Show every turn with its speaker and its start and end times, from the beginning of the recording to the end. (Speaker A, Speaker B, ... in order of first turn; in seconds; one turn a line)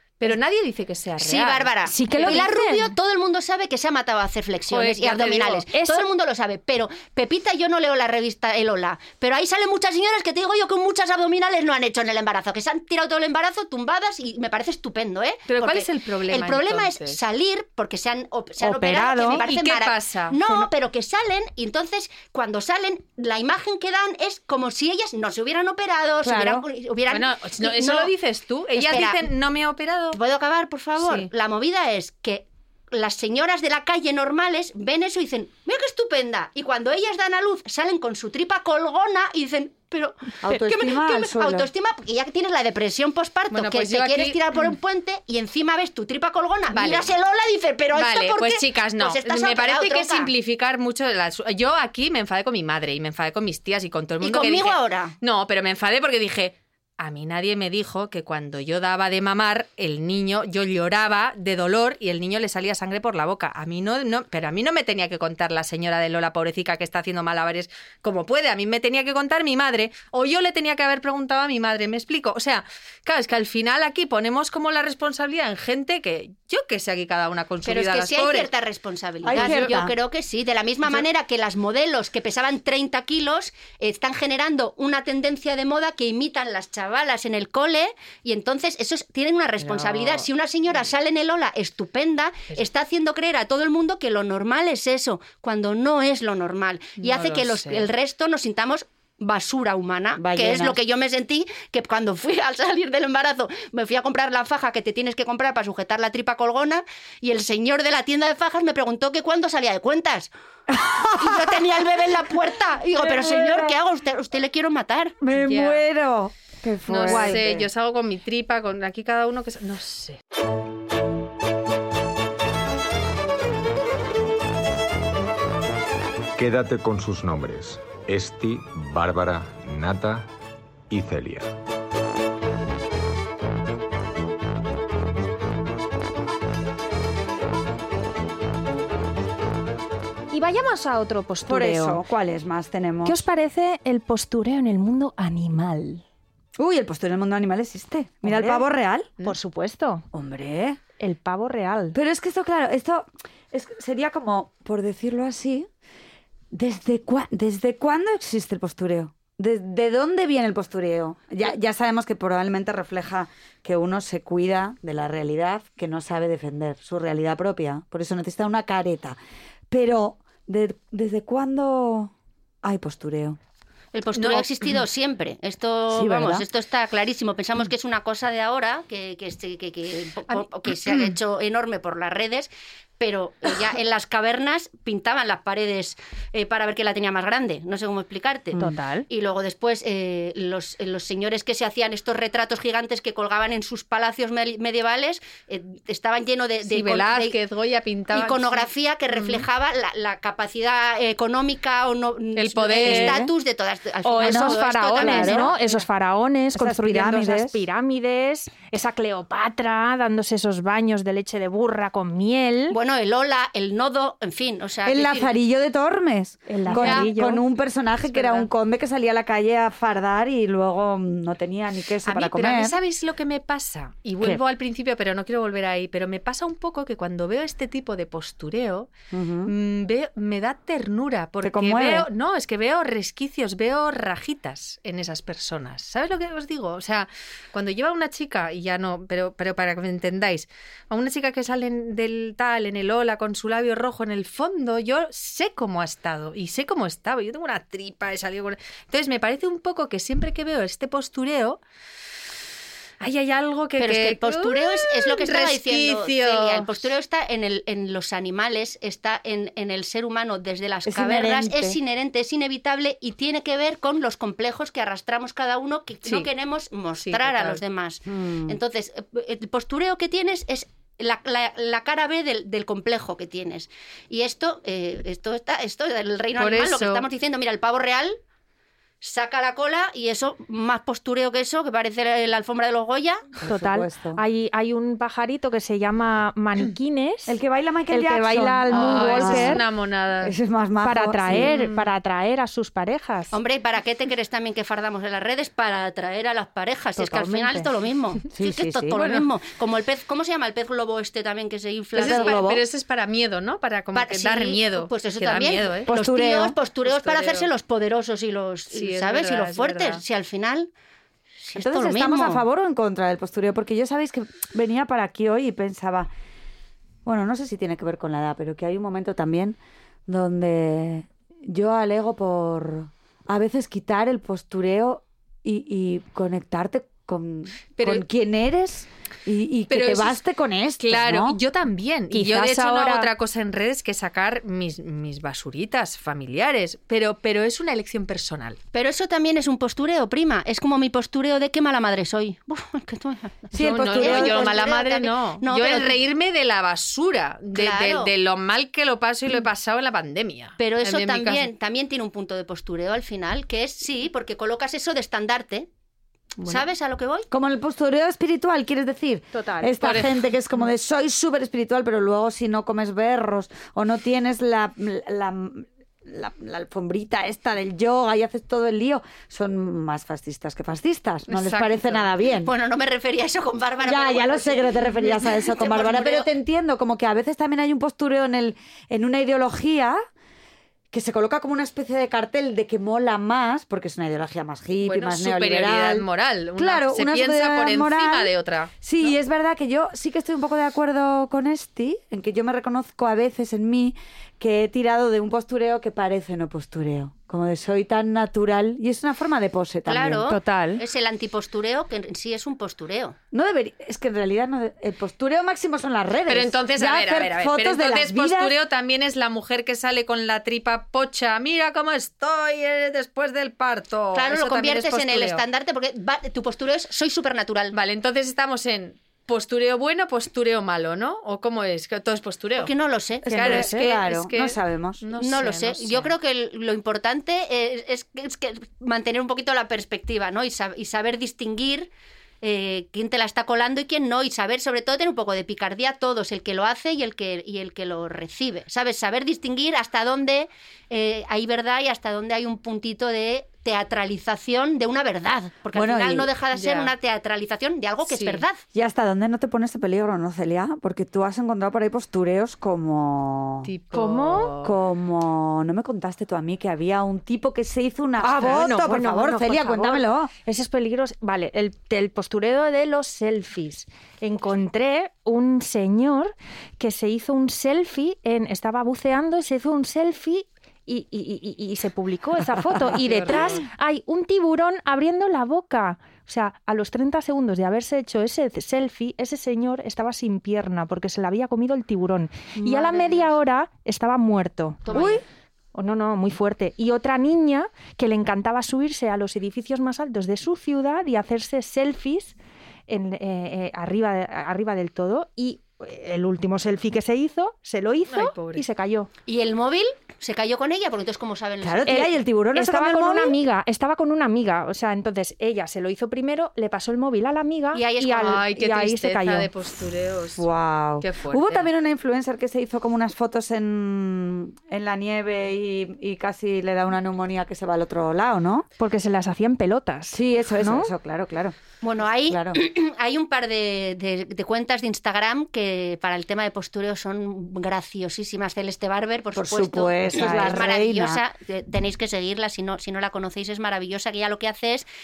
Speaker A: 0.2-2.5
Speaker B: 1.2-28.1
Speaker C: 1.9-2.9
Speaker A: 4.7-5.6
Speaker C: 5.7-6.1
Speaker A: 15.5-17.2
Speaker D: 18.6-19.4
Speaker A: 19.3-20.4
Speaker D: 26.2-26.6
Speaker A: 27.1-30.2
Speaker B: 28.8-29.2
Speaker B: 30.1-50.3
Speaker A: 31.0-31.3
Speaker D: 40.4-41.7
Speaker A: 43.5-44.7
Speaker A: 46.7-47.1
Speaker A: 47.9-78.5
Speaker B: 54.2-55.1
Speaker B: 77.6-110.3
Speaker D: 79.2-79.9
Speaker A: 79.3-79.8
Speaker A: 89.6-90.3
Speaker A: 97.0-97.9
Speaker D: 100.2-100.8
Speaker D: 110.7-111.8
Speaker B: 111.2-115.2
Speaker D: 112.9-113.8
Speaker D: 115.2-117.7
Speaker A: 115.4-115.8
Speaker A: 116.9-120.2
Speaker C: 117.0-117.4
Speaker E: 126.4-130.3
Speaker E: 130.9-131.5
Speaker C: 140.3-142.0
Speaker D: 141.4-143.2
Speaker C: 143.1-146.0
Speaker D: 146.6-149.1
Speaker C: 148.2-148.6
Speaker C: 149.2-150.1
Speaker D: 150.1-150.8
Speaker C: 151.0-152.0
Speaker D: 151.9-155.7
Speaker D: 156.5-169.2
Speaker D: 169.7-172.1
Speaker D: 172.6-173.4
Speaker B: 173.9-197.4
Speaker A: 174.1-174.8
Speaker D: 175.9-176.5
Speaker C: 188.6-189.1
Speaker A: 196.6-199.5
Speaker B: 198.1-205.8
Speaker A: 202.4-203.2
Speaker D: 202.8-203.3
Speaker C: 204.0-212.8
Speaker D: 204.2-205.5
Speaker D: 206.5-207.7
Speaker B: 212.7-215.3
Speaker D: 214.8-222.8
Speaker C: 216.5-217.4
Speaker A: 216.7-217.0
Speaker A: 218.1-218.5
Speaker A: 222.1-228.9
Speaker D: 229.1-229.5
Speaker A: 229.4-251.6
Speaker D: 231.4-232.1
Speaker A: 253.0-256.9
Speaker B: 253.8-278.2
Speaker D: 260.9-261.8
Speaker A: 266.0-266.3
Speaker A: 267.0-267.6
Speaker D: 268.1-268.6
Speaker A: 276.4-277.1
Speaker B: 279.0-283.2
Speaker D: 283.4-284.2
Speaker C: 283.4-289.6
Speaker D: 287.3-289.6
Speaker A: 288.7-290.4
Speaker D: 290.2-291.5
Speaker C: 290.8-293.4
Speaker A: 291.3-291.9
Speaker B: 293.3-302.4
Speaker C: 296.9-297.7
Speaker D: 298.3-299.0
Speaker A: 298.9-299.3
Speaker A: 301.9-305.9
Speaker D: 301.9-302.6
Speaker B: 303.9-310.7
Speaker D: 305.9-306.6
Speaker A: 306.9-307.5
Speaker A: 308.7-310.0
Speaker B: 311.4-312.4
Speaker D: 311.6-316.1
Speaker D: 317.1-331.4
Speaker A: 327.8-328.1
Speaker A: 329.7-330.2
Speaker A: 330.8-338.6
Speaker C: 332.1-333.1
Speaker B: 338.7-346.0
Speaker D: 343.5-344.8
Speaker A: 343.5-351.5
Speaker B: 347.5-348.1
Speaker B: 350.6-355.7
Speaker A: 356.4-356.6
Speaker B: 356.4-357.3
Speaker D: 357.3-372.5
Speaker C: 359.3-359.7
Speaker A: 359.8-360.2
Speaker A: 371.3-372.1
Speaker B: 372.4-376.3
Speaker D: 373.8-380.0
Speaker D: 380.9-400.3
Speaker A: 384.8-389.1
Speaker B: 399.9-403.2
Speaker C: 400.3-400.8
Speaker D: 403.3-408.6
Speaker A: 406.3-415.4
Speaker B: 414.1-417.8
Speaker A: 417.7-422.7
Speaker B: 422.6-423.7
Speaker D: 423.2-425.0
Speaker A: 423.3-426.1
Speaker B: 425.2-448.6
Speaker D: 445.7-446.3
Speaker A: 446.5-446.9
Speaker A: 448.1-448.4
Speaker D: 448.7-453.7
Speaker A: 453.6-454.8
Speaker C: 453.9-454.6
Speaker D: 454.6-460.3
Speaker C: 458.2-485.2
Speaker A: 458.3-458.7
Speaker A: 473.0-473.6
Speaker B: 482.6-483.3
Speaker B: 484.9-485.2
Speaker D: 484.9-485.2
Speaker C: 485.7-492.4
Speaker C: 492.9-499.1
Speaker A: 498.1-498.6
Speaker B: 499.3-502.1
Speaker D: 501.6-503.4
Speaker C: 501.9-509.5
Speaker B: 507.7-508.4
Speaker A: 508.2-510.5
Speaker D: 510.4-518.6
Speaker A: 511.0-511.7
Speaker C: 518.8-520.9
Speaker D: 520.1-521.6
Speaker B: 521.8-534.9
Speaker D: 522.3-522.6
Speaker D: 529.3-531.2
Speaker C: 530.1-530.6